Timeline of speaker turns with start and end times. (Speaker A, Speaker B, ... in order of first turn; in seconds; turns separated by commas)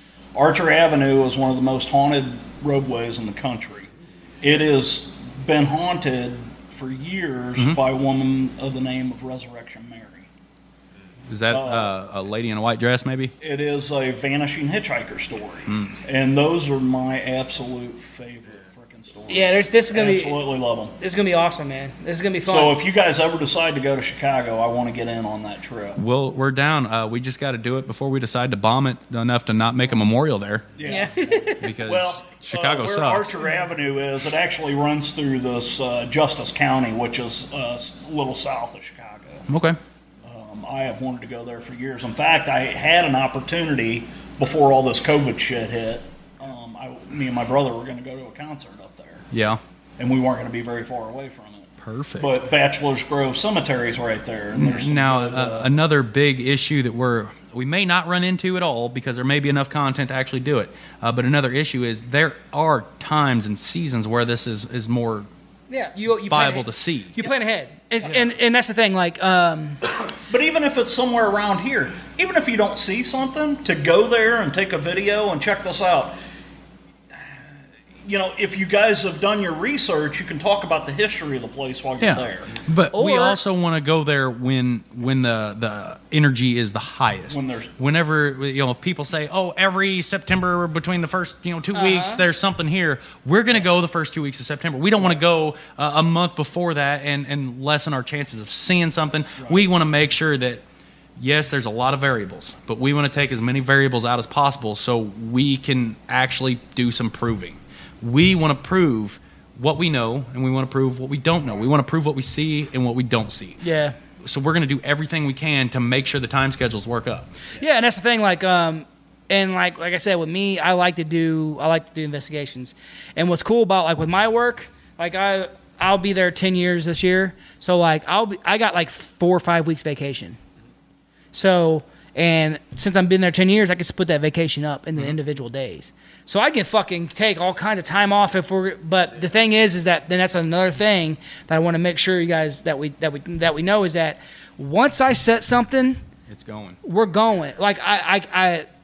Speaker A: 0.3-3.9, Speaker A: 4.4-10.3, Speaker B: 11.3-13.3, Speaker A: 11.5-11.9, Speaker A: 13.4-20.9, Speaker B: 15.7-16.0, Speaker C: 19.3-20.4, Speaker C: 21.0-22.8, Speaker A: 22.5-26.0, Speaker B: 26.0-30.7, Speaker A: 30.8-39.5, Speaker C: 30.9-31.6, Speaker B: 31.6-33.4, Speaker B: 39.5-39.8, Speaker A: 40.2-49.3, Speaker B: 49.3-49.6, Speaker A: 50.0-55.8, Speaker B: 51.8-52.4, Speaker B: 54.6-65.3, Speaker C: 65.7-69.8, Speaker B: 66.3-67.3, Speaker A: 70.3-76.2, Speaker A: 78.1-82.5, Speaker B: 82.0-100.6, Speaker C: 82.9-83.4, Speaker A: 87.3-87.7, Speaker C: 91.7-92.2, Speaker A: 99.4-99.7, Speaker B: 101.2-113.6, Speaker C: 113.6-114.0, Speaker B: 114.2-117.3, Speaker C: 117.6-130.4, Speaker C: 131.3-146.0, Speaker B: 146.3-146.8, Speaker C: 146.8-148.7